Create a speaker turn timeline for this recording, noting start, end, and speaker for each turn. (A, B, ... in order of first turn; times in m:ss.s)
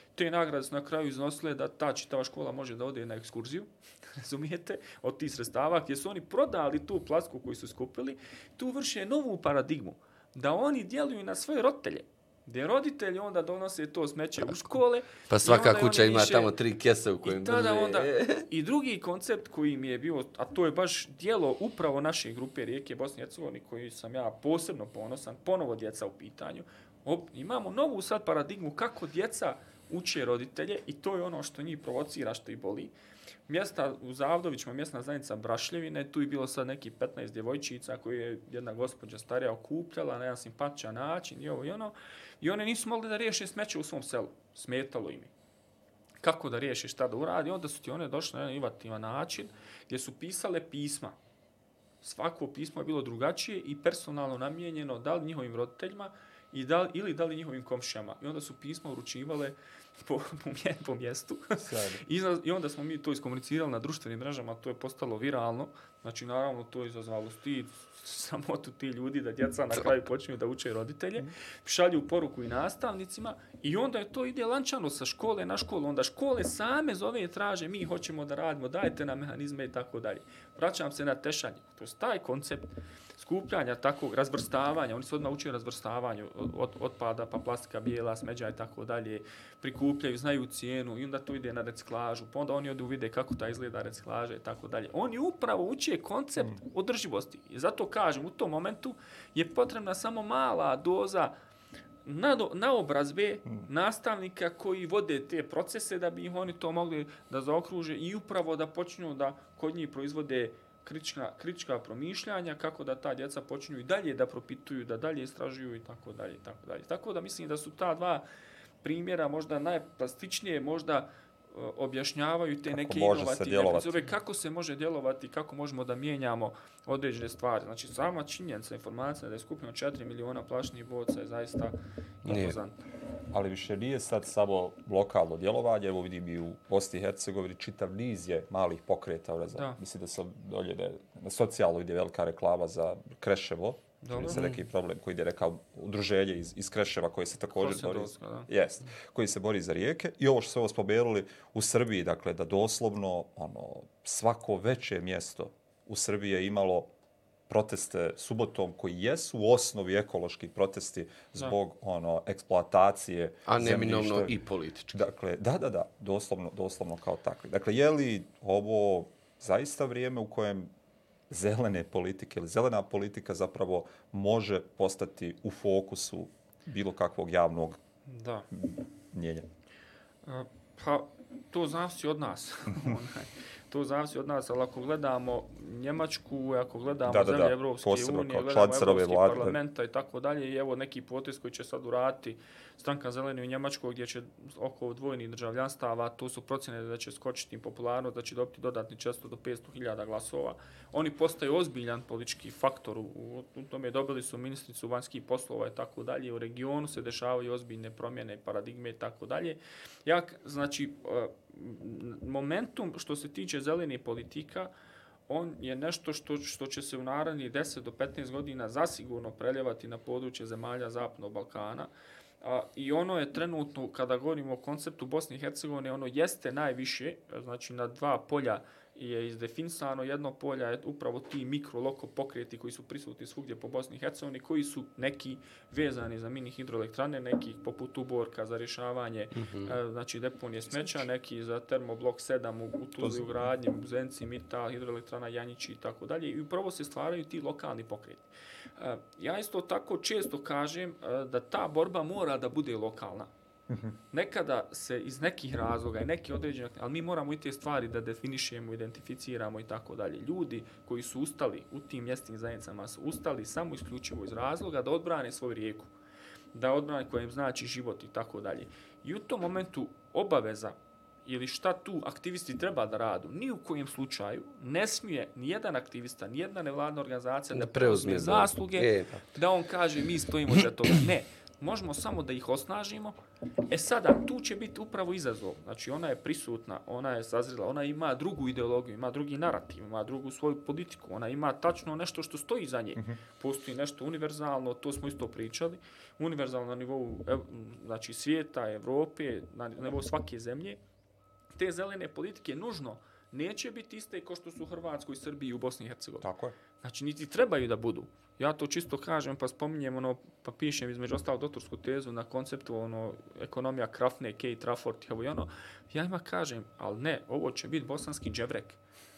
0:00.2-0:16.5 A
0:15.3-0:18.5 B
0:17.2-0:32.9 A
0:33.5-0:45.3 A
0:46.2-0:51.2 A
0:52.0-1:41.3 A
1:01.6-1:02.0 C
1:42.0-1:58.2 A
1:58.8-2:12.8 A
2:02.7-2:04.1 C
2:12.2-2:12.6 B
2:13.3-2:36.9 C
2:24.0-2:24.6 A
2:27.6-2:28.5 A
2:37.5-2:44.3 C
2:43.5-2:45.0 B
2:44.9-2:50.7 C
2:51.3-2:57.8 C
2:58.1-2:58.4 A
2:58.5-2:59.4 C
3:00.2-3:34.7 A
3:07.1-3:09.6 C
3:35.3-3:41.9 A
3:42.4-4:13.3 A
3:59.4-3:59.8 B
4:00.7-4:01.0 C
4:03.0-4:03.5 C
4:13.7-4:14.0 C
4:14.1-4:25.9 A
4:26.5-4:43.2 A
4:37.5-4:39.2 B
4:43.7-5:00.8 A
5:01.6-5:06.3 A
5:06.2-5:06.5 C
5:06.8-5:18.8 A